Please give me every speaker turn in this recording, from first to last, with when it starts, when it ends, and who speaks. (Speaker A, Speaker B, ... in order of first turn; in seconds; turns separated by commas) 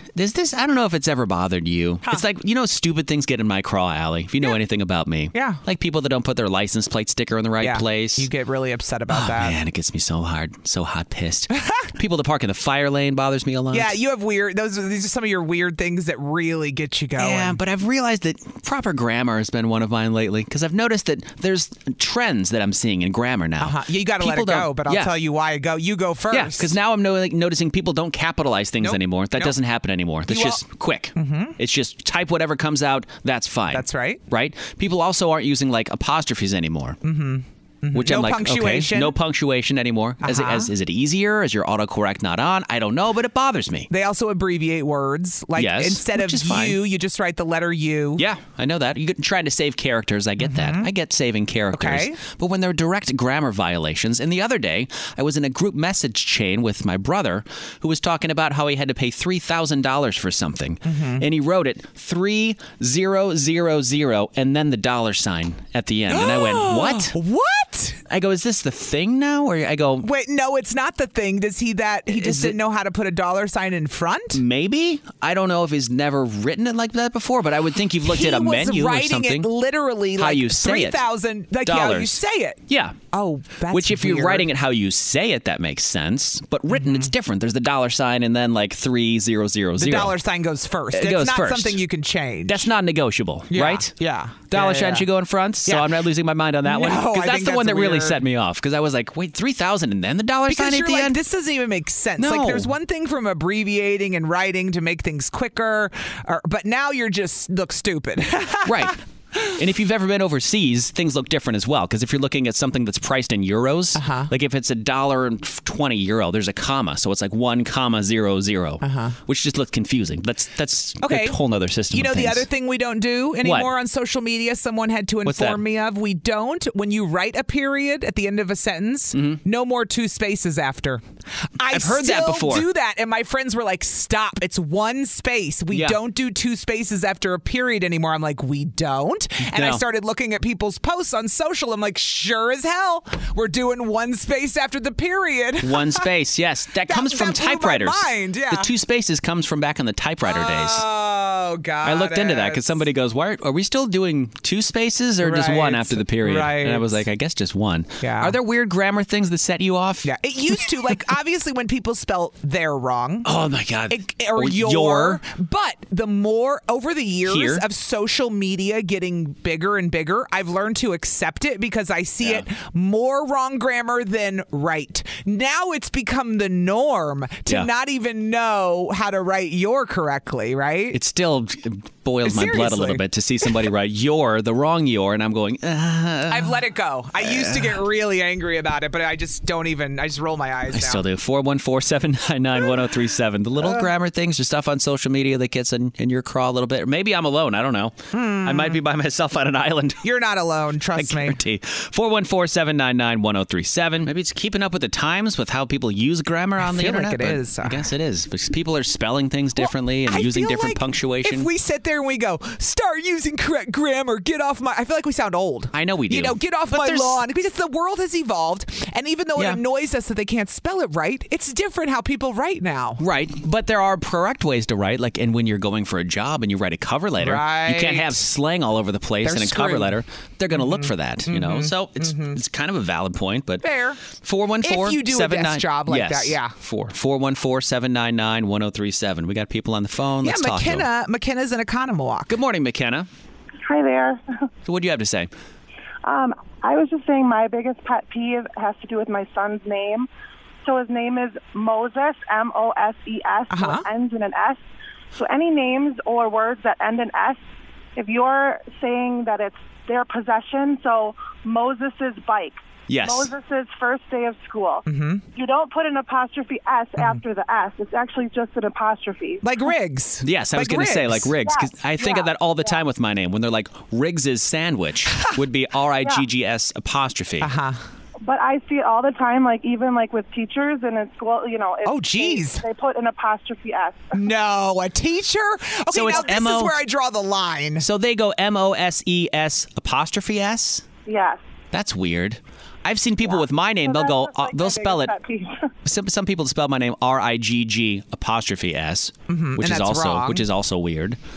Speaker A: 0.1-8.3, Speaker B: 5.3-5.6, Speaker B: 7.6-9.6, Speaker A: 9.1-13.9, Speaker B: 13.7-17.6, Speaker A: 17.2-25.1, Speaker B: 23.6-26.7, Speaker A: 26.3-37.0, Speaker B: 28.8-29.6, Speaker B: 30.3-30.6, Speaker B: 31.1-31.6, Speaker B: 33.7-34.2, Speaker B: 37.0-39.1, Speaker A: 37.9-43.9, Speaker B: 40.2-40.7, Speaker B: 43.9-48.2, Speaker A: 45.6-46.8, Speaker A: 48.2-67.1, Speaker B: 50.4-50.9, Speaker B: 51.7-52.2, Speaker B: 60.9-61.2, Speaker B: 66.1-68.0, Speaker A: 68.1-70.1, Speaker B: 70.0-74.4, Speaker A: 72.1-72.6, Speaker A: 74.3-79.5, Speaker B: 78.1-82.6, Speaker A: 80.2-81.0, Speaker A: 81.6-83.0, Speaker B: 83.1-84.5, Speaker A: 83.7-90.2, Speaker B: 86.7-87.1, Speaker B: 89.8-92.7, Speaker A: 90.9-91.8, Speaker A: 92.5-93.9, Speaker B: 93.5-95.1, Speaker A: 94.5-101.2, Speaker B: 95.7-95.9, Speaker B: 96.6-98.2, Speaker B: 100.5-109.4, Speaker A: 102.2-102.7, Speaker A: 108.7-122.5, Speaker B: 113.9-114.3, Speaker B: 118.8-119.2, Speaker B: 121.0-121.4, Speaker B: 121.9-131.0, Speaker A: 123.4-123.7, Speaker A: 125.2-125.6, Speaker A: 129.1-129.4, Speaker B: 131.6-146.1, Speaker A: 131.7-132.7, Speaker A: 135.7-136.0, Speaker A: 139.5-139.8, Speaker A: 145.6-150.8, Speaker B: 146.9-148.7, Speaker B: 150.2-152.8, Speaker A: 151.8-160.1, Speaker B: 155.2-157.0, Speaker B: 158.0-158.4, Speaker B: 160.0-163.3, Speaker A: 163.2-165.2, Speaker B: 163.9-181.0, Speaker A: 167.3-167.6, Speaker A: 180.9-186.6, Speaker B: 182.2-183.0, Speaker B: 186.3-191.0, Speaker A: 187.2-187.8, Speaker A: 190.7-200.0, Speaker B: 193.6-193.9, Speaker B: 198.1-198.8, Speaker B: 200.0-201.4, Speaker A: 200.9-211.5, Speaker B: 206.6-207.9, Speaker B: 209.6-223.0, Speaker A: 215.7-217.2, Speaker A: 219.4-219.6, Speaker A: 223.0-240.9, Speaker B: 227.2-228.2, Speaker B: 229.2-229.9, Speaker B: 230.5-232.4, Speaker B: 233.6-234.0, Speaker B: 234.6-236.5, Speaker B: 240.2-242.3, Speaker A: 242.3-243.1, Speaker C: 243.6-244.2, Speaker A: 244.7-245.3, Speaker C: 246.0-250.1, Speaker C: 250.6-254.6, Speaker B: 253.5-253.9, Speaker C: 255.1-257.4, Speaker C: 257.9-269.4, Speaker A: 262.9-263.3, Speaker B: 264.9-265.2, Speaker B: 269.4-271.3, Speaker A: 270.2-277.5, Speaker C: 271.4-272.8, Speaker B: 277.4-277.8, Speaker C: 278.2-284.3, Speaker B: 281.8-282.6, Speaker B: 284.1-287.8, Speaker A: 285.9-286.8, Speaker A: 287.8-290.9, Speaker C: 291.1-291.4, Speaker A: 291.7-295.2, Speaker C: 293.2-295.7, Speaker A: 295.8-301.2, Speaker B: 299.3-300.4